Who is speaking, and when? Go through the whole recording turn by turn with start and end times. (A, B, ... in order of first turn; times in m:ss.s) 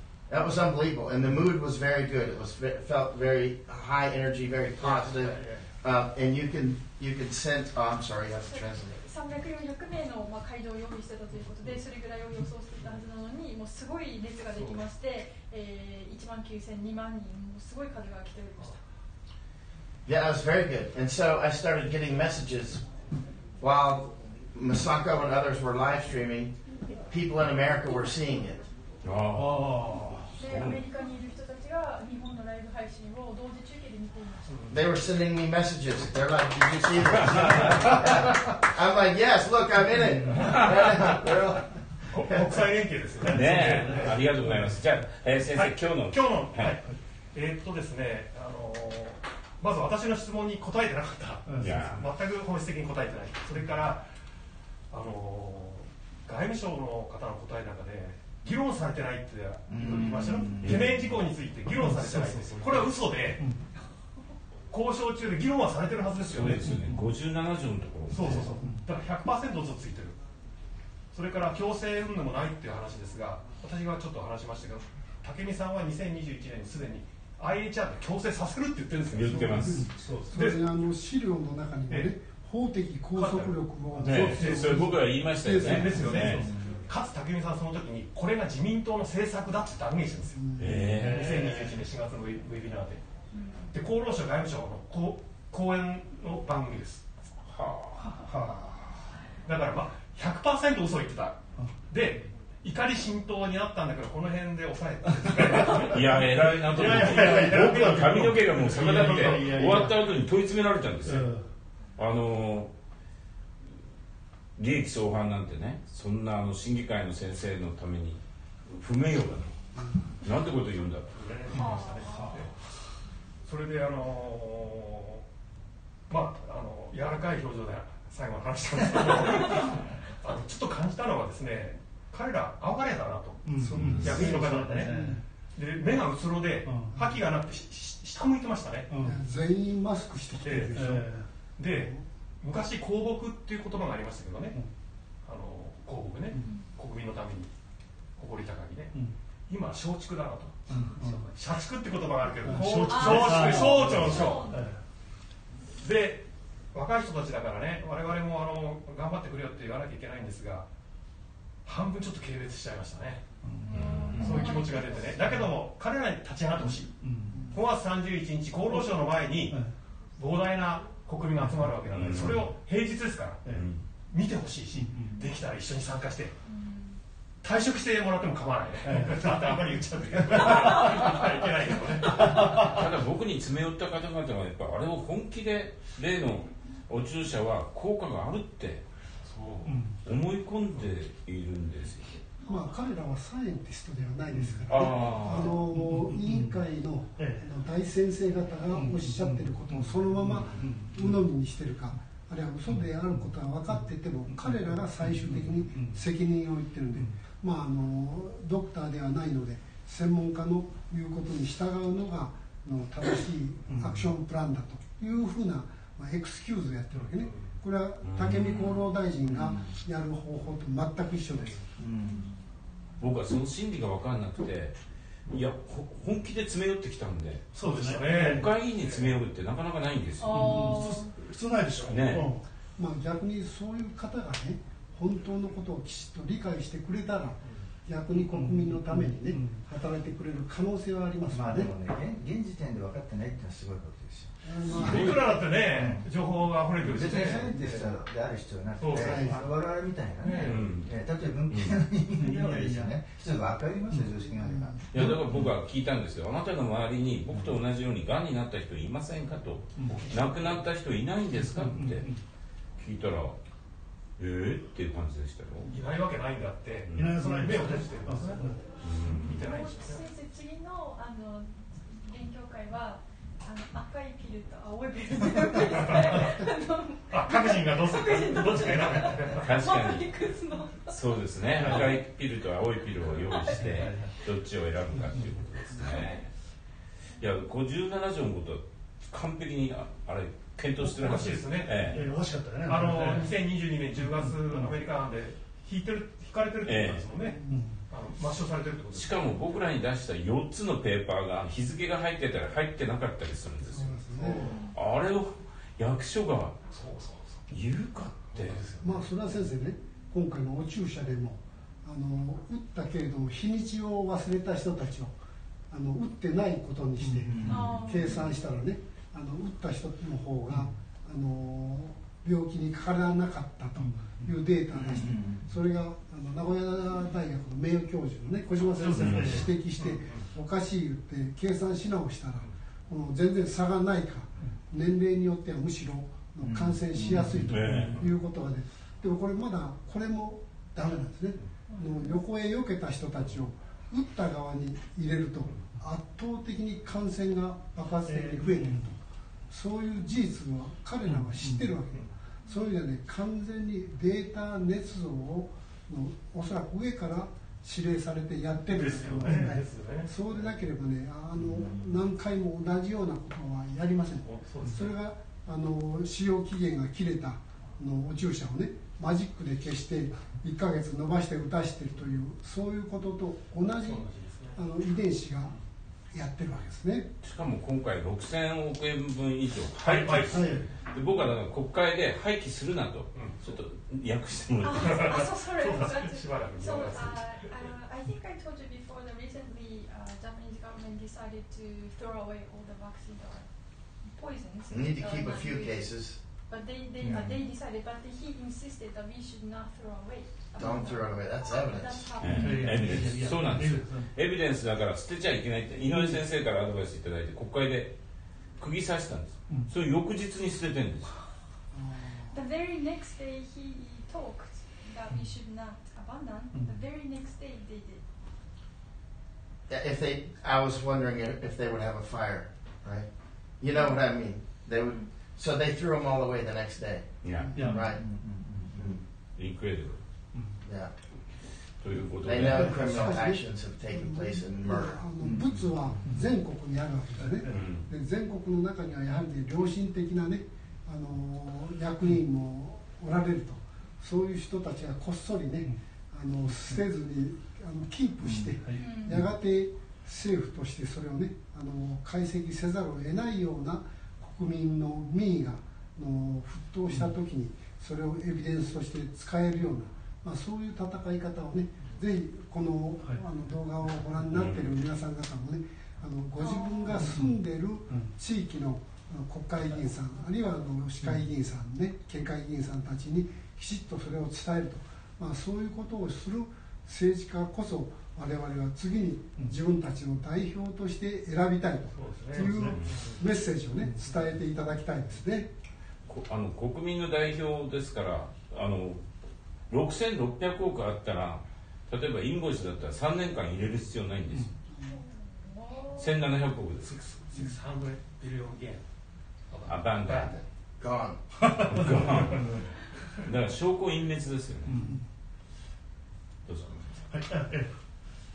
0:00.3-0:09.0 A
0:04.8-0:05.7 B
0:08.4-0:18.8 C
0:14.6-0:14.8 B
0:20.1-0:22.9 A
0:23.6-0:28.7 A
0:29.0-0:29.8 D
0:29.3-0:30.4 E
0:30.4-0:34.5 C
0:30.4-0:30.8 D
0:34.5-0:34.8 B
0:34.7-0:42.6 A
0:37.1-0:37.8 D
0:42.2-0:44.2 B
0:43.2-0:44.8 E
0:43.2-0:46.8 D
0:45.5-0:54.1 B
0:51.5-0:51.9 E
0:51.6-0:52.1 D
0:54.9-1:03.4 B
0:59.7-1:01.0 F
1:00.6-1:01.2 D
1:01.8-1:03.6 E
1:04.7-1:06.8 B
1:06.2-1:08.6 D
1:06.5-1:07.1 E
1:08.1-1:10.2 B
1:08.2-1:08.9 E
1:11.1-1:19.6 B
1:18.9-1:20.0 D
1:19.3-1:26.4 G
1:19.7-1:20.4 E
1:20.3-1:20.6 B
1:23.2-1:25.0 B
1:24.0-1:24.3 E
1:24.0-1:26.5 D
1:25.6-1:30.4 B
1:25.9-1:26.5 E
1:26.4-1:26.8 F
1:30.3-1:31.0 G
1:30.6-1:31.4 D
1:30.9-1:31.8 E
1:31.0-1:33.0 B
1:33.3-1:33.6 C
1:33.7-1:37.1 B
1:37.4-1:38.2 D
1:38.1-1:38.9 E
1:39.4-1:49.9 B
1:45.1-1:50.1 E
1:45.6-1:51.3 D
1:51.0-1:51.4 E
1:52.0-1:52.7 D
1:54.6-1:59.6 D
1:59.8-2:00.0 G
2:00.2-2:01.2 D
2:01.1-2:02.6 B
2:01.5-2:02.3 C
2:03.4-2:05.2 B
2:06.1-2:15.0 B
2:13.4-2:15.2 E
2:13.5-2:15.2 G
2:13.8-2:14.3 D
2:15.5-2:18.9 B
2:16.6-2:17.0 E
2:18.9-2:19.2 E
2:19.0-2:22.0 G
2:20.4-2:20.8 B
2:20.7-2:21.3 E
2:21.6-2:24.6 B
2:25.2-2:27.5 B
2:26.3-2:26.6 E
2:28.2-2:29.0 B
2:29.5-2:34.6 B
2:30.7-2:31.3 E
2:32.4-2:34.8 E
2:32.8-2:34.7 C
2:35.8-2:40.7 B
2:41.6-2:43.3 B
2:43.4-2:44.4 E
2:43.6-2:45.1 C
2:43.7-2:44.3 D
2:44.1-2:44.5 F
2:44.1-2:49.6 B
2:45.1-2:45.6 E
2:46.6-2:47.6 E
2:47.3-2:47.6 G
2:48.7-2:49.7 E
2:50.2-2:53.6 B
2:51.4-2:52.2 E
2:51.9-2:52.6 D
2:53.5-2:53.8 D
2:54.1-2:56.4 B
2:54.8-2:55.2 E
2:56.4-2:57.0 C
2:57.4-3:02.8 B
2:58.9-3:01.0 E
3:02.1-3:02.8 E
3:02.2-3:08.9 D
3:09.2-3:09.8 B
3:09.6-3:10.0 E
3:10.0-3:12.2 D
3:12.4-3:41.6 G
3:14.3-3:15.0 E
3:14.7-3:15.6 D
3:15.7-3:17.5 E
3:18.7-3:21.3 E
3:22.7-3:26.1 E
3:26.9-3:27.2 E
3:33.7-3:34.1 E
3:36.9-3:37.6 B
3:38.0-3:38.9 D
3:39.2-3:39.8 F
3:41.3-3:41.6 B
3:41.8-3:42.3 F
3:43.0-3:44.8 D
3:45.3-3:50.8 D
3:47.6-3:48.5 E
3:47.6-3:49.2 B
3:50.2-3:51.1 C
3:50.3-3:52.4 E
3:51.9-3:52.3 D
3:52.8-4:01.7 G
3:58.2-3:59.6 E
4:01.3-4:04.4 F
4:04.4-4:05.5 G
4:04.7-4:07.9 B
4:04.7-4:05.3 D
4:05.7-4:06.1 F
4:06.8-4:14.8 F
4:08.8-4:09.4 B
4:09.0-4:09.4 G
4:10.4-4:11.0 D
4:11.5-4:11.8 D
4:12.2-4:13.0 E
4:14.4-4:15.1 G
4:14.9-4:22.1 D
4:19.8-4:20.1 E
4:19.8-4:20.6 B
4:21.4-4:22.2 E
4:22.8-4:23.4 D
4:24.2-4:25.7 D
4:25.7-4:30.0 B
4:26.9-4:27.1 D
4:26.9-4:28.6 E
4:28.8-4:29.4 D
4:29.2-4:41.0 C
4:35.6-4:36.2 B
4:37.1-4:39.5 B
4:38.4-4:38.8 E
4:39.3-4:40.2 D
4:40.8-4:46.2 D
4:41.5-4:42.0 E
4:43.4-4:44.2 E
4:45.0-4:46.1 E
4:47.2-4:52.0 D
4:50.8-4:51.9 B
4:51.8-4:53.4 E
4:52.6-4:57.4 B
4:54.0-4:54.8 E
4:56.6-4:57.1 D
4:57.2-4:57.7 G
4:57.5-4:57.8 E
4:57.9-4:59.4 B
4:58.9-5:06.6 D
5:03.6-5:04.5 G
5:04.1-5:04.7 B
5:06.7-5:07.4 B
5:07.5-5:08.8 D
5:08.3-5:09.0 B
5:08.8-5:15.2 G
5:15.7-5:49.0 G
5:17.0-5:17.8 F
5:17.4-5:18.4 C
5:23.8-5:24.4 E
5:24.7-5:25.6 F
5:28.7-5:29.5 E
5:29.0-5:29.5 D
5:29.8-5:30.3 B
5:36.4-5:37.5 F
5:37.1-5:38.1 E
5:37.5-5:38.1 D
5:41.7-5:42.2 C
5:48.1-5:48.9 E
5:49.5-6:15.5 G
5:51.1-5:51.8 E
5:58.7-6:00.6 B
5:59.1-5:59.6 E
6:01.4-6:02.0 F
6:04.2-6:04.9 B
6:13.8-6:14.6 B
6:16.1-6:17.1 G
6:17.2-6:25.2 D
6:19.8-6:20.8 B
6:20.3-6:20.6 G
6:23.1-6:23.6 B
6:24.6-6:43.0 C
6:24.8-6:27.7 B
6:34.7-6:36.2 A
6:37.0-6:37.4 F
6:40.6-6:42.2 A
6:42.2-6:48.0 D
6:42.3-6:44.1 E
6:42.3-6:42.9 F
6:48.6-6:51.1 D
6:51.7-6:52.4 G
6:52.3-6:58.0 C
6:59.7-7:08.0 A
7:03.8-7:04.0 C
7:07.2-7:07.6 D
7:07.4-7:07.8 G
7:07.6-7:07.9 E
7:07.9-7:09.0 F
7:08.8-7:09.0 A
7:09.4-7:10.0 D
7:10.3-7:10.6 E
7:10.6-7:10.9 A
7:11.8-7:13.3 D
7:12.2-7:15.0 A
7:12.4-8:05.5 G
7:12.6-7:13.0 E
7:15.2-7:16.1 F
7:16.0-7:16.3 E
7:17.2-7:17.8 E
7:17.5-7:17.9 D
7:26.5-7:26.8 E
7:28.2-7:28.5 F
7:28.6-7:29.2 E
7:28.8-7:29.2 C
7:44.3-7:44.8 D
7:46.4-7:47.0 C
7:46.9-7:48.1 E
7:51.0-7:51.3 E
8:02.0-8:03.2 B
8:02.4-8:03.0 E
8:02.7-8:03.0 D
8:03.8-8:04.3 E
8:06.1-8:09.0 D
8:09.7-8:14.5 D
8:14.8-8:16.1 C
8:16.0-8:17.0 D
8:16.8-8:18.9 B
8:19.5-8:20.4 B
8:19.7-8:20.4 D
8:20.8-8:21.2 A
8:21.4-8:22.7 E
8:21.6-8:22.6 D
8:21.9-8:22.6 B
8:23.2-8:24.8 D
8:24.7-8:25.0 E
8:24.8-8:25.1 G
8:26.5-8:27.0 D
8:27.1-8:27.7 E